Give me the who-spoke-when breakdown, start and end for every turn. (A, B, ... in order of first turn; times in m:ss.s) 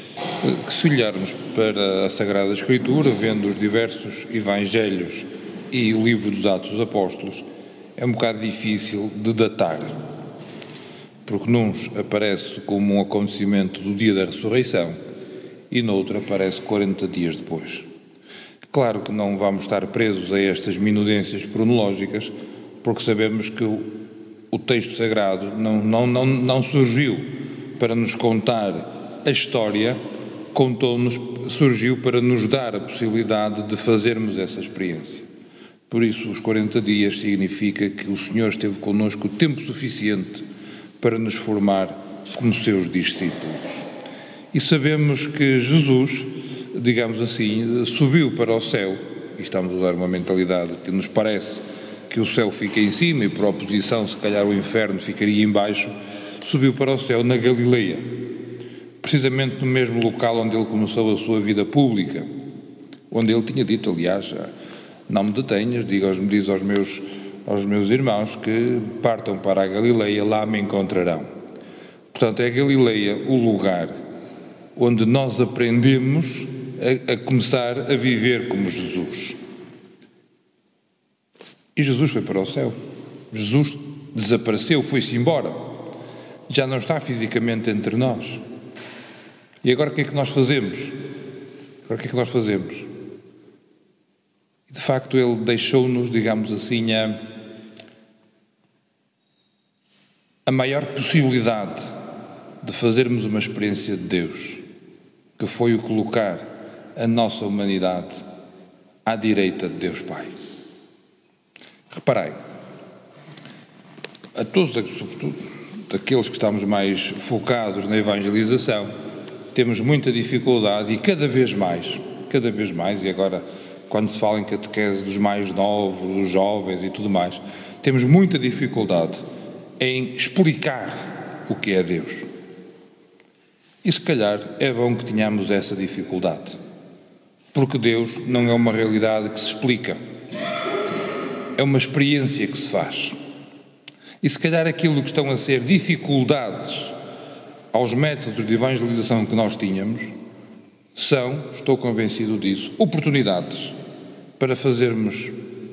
0:00.4-0:10.0 A
0:11.2-0:15.0 A
0:15.7-0:17.9 A
0:18.7-0:23.9 A
0:24.5-0:30.0 A
0:30.5-0:35.3 A
0:35.9-0:40.4 A
0:41.0-0:43.8 A
0:44.5-0:58.2 A
0:59.0-1:02.3 A
1:03.1-1:04.5 A
1:05.1-1:11.3 A
1:12.1-1:14.0 A
1:14.8-1:19.4 A
1:21.8-1:22.8 A
1:23.3-1:25.7 A
1:26.5-1:28.4 A
1:29.6-1:31.0 A
1:31.8-1:32.9 A
1:34.7-1:37.2 A
1:40.5-1:42.0 A
1:42.6-1:44.6 A
1:45.4-1:48.2 A
1:49.0-1:50.3 A
1:51.9-1:52.4 A
1:54.4-1:58.9 A
1:59.5-2:09.2 A
2:09.8-2:12.3 A
2:13.8-2:16.6 A
2:17.5-2:20.0 A
2:21.6-2:23.2 A
2:24.2-2:27.0 A
2:27.7-2:30.2 A
2:31.0-2:33.8 A
2:34.4-2:35.4 A